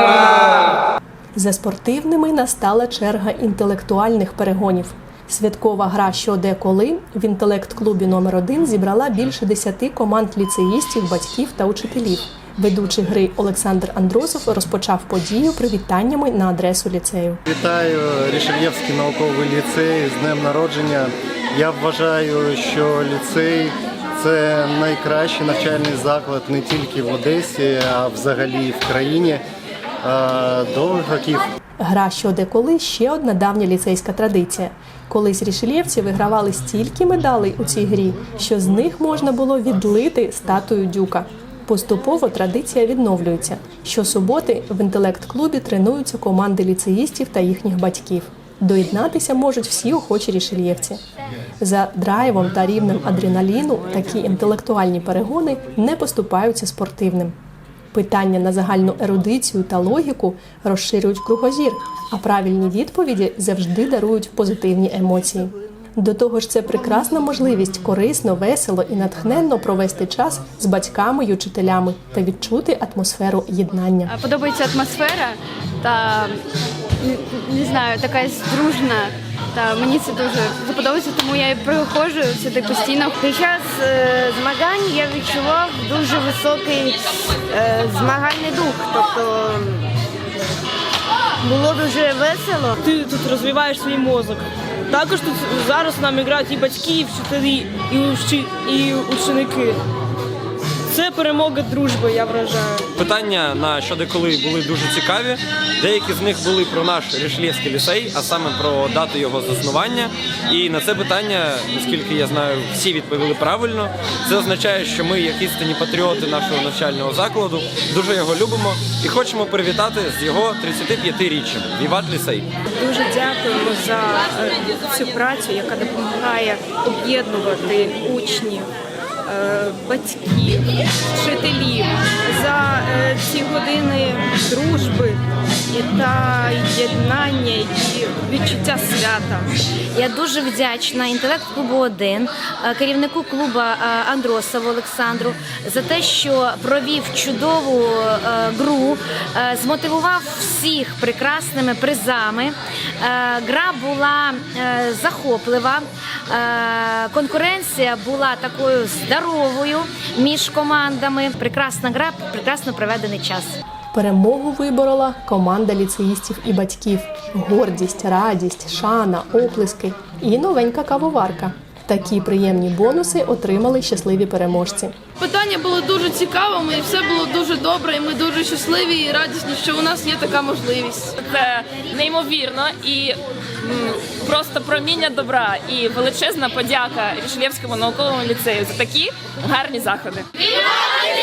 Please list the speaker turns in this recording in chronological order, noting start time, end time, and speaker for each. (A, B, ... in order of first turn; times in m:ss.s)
0:01.3-0:17.4 A
0:17.5-0:29.4 B
0:30.0-0:31.4 B
0:31.8-0:51.0 A
0:51.6-0:57.3 A
0:57.9-1:14.1 A
1:14.1-1:16.4 C
1:17.0-1:23.2 C
1:32.8-1:39.8 D
1:40.9-1:42.8 D
1:43.0-2:02.5 E
2:02.7-2:08.7 F
2:09.2-2:15.2 F
2:15.7-2:19.5 F
2:19.9-2:43.6 G
2:43.9-2:54.9 A
2:55.2-3:01.2 H
3:01.2-3:10.2 I